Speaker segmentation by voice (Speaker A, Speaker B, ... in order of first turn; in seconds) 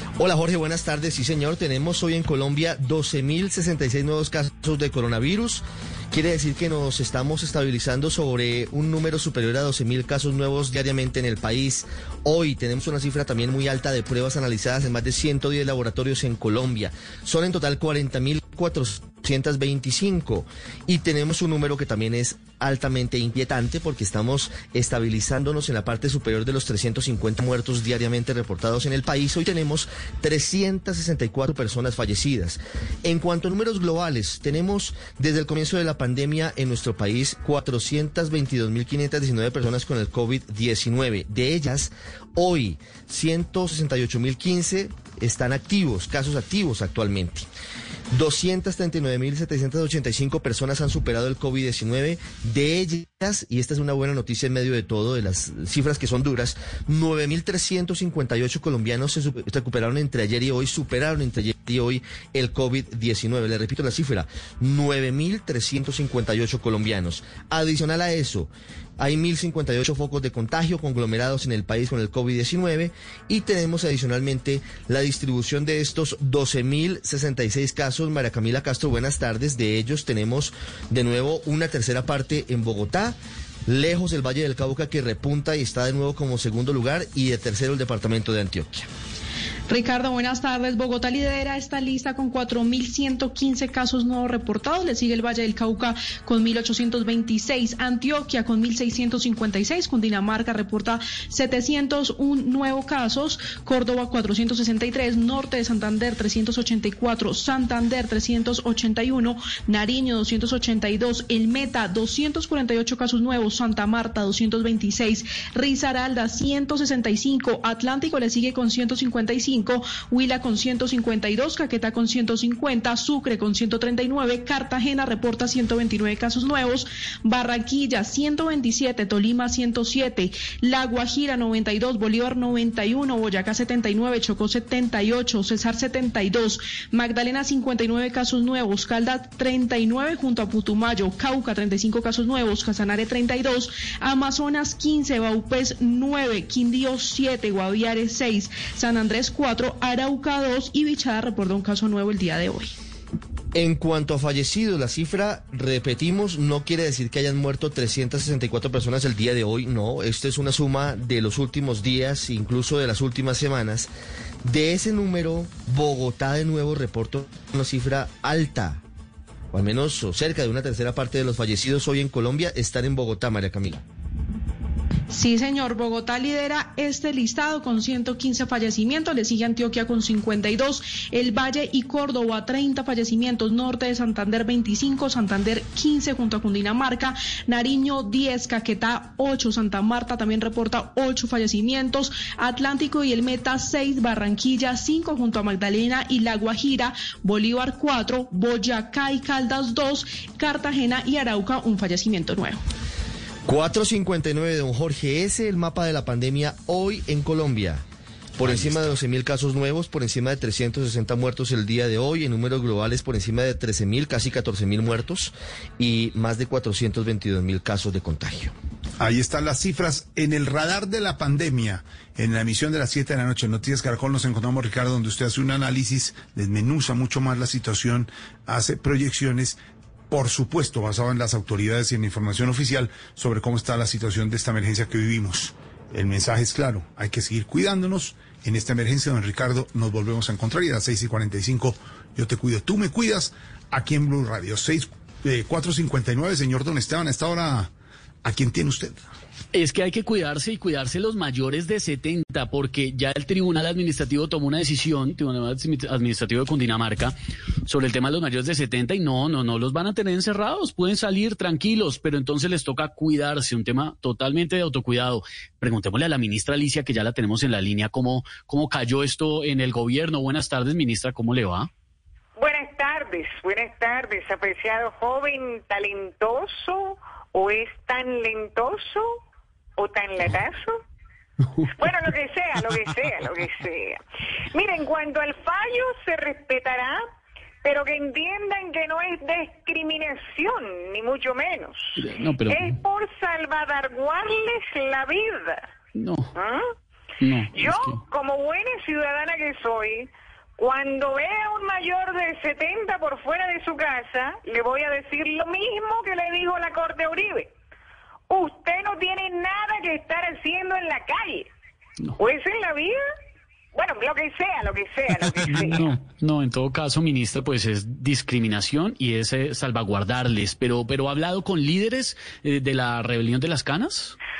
Speaker A: 0.2-47.5, 48.1-88.8, 153.5-163.9, 164.4-168.8, 169.5-173.8, 203.4-207.8, 208.4-218.5
Speaker B: 89.7-152.7, 175.1-202.6
Speaker C: 219.0-229.6, 230.1-247.7, 248.2-249.0
Speaker D: 249.5-257.1, 257.6-271.7, 292.0-292.8, 295.9-296.3, 297.2-298.0, 315.5-324.1
Speaker E: 272.4-279.1, 279.8-280.8, 281.8-284.0, 284.5-287.0, 287.6-291.9, 292.4-295.6, 296.3-296.7, 297.5-307.5, 308.3-311.5, 312.2-313.0, 313.7-315.9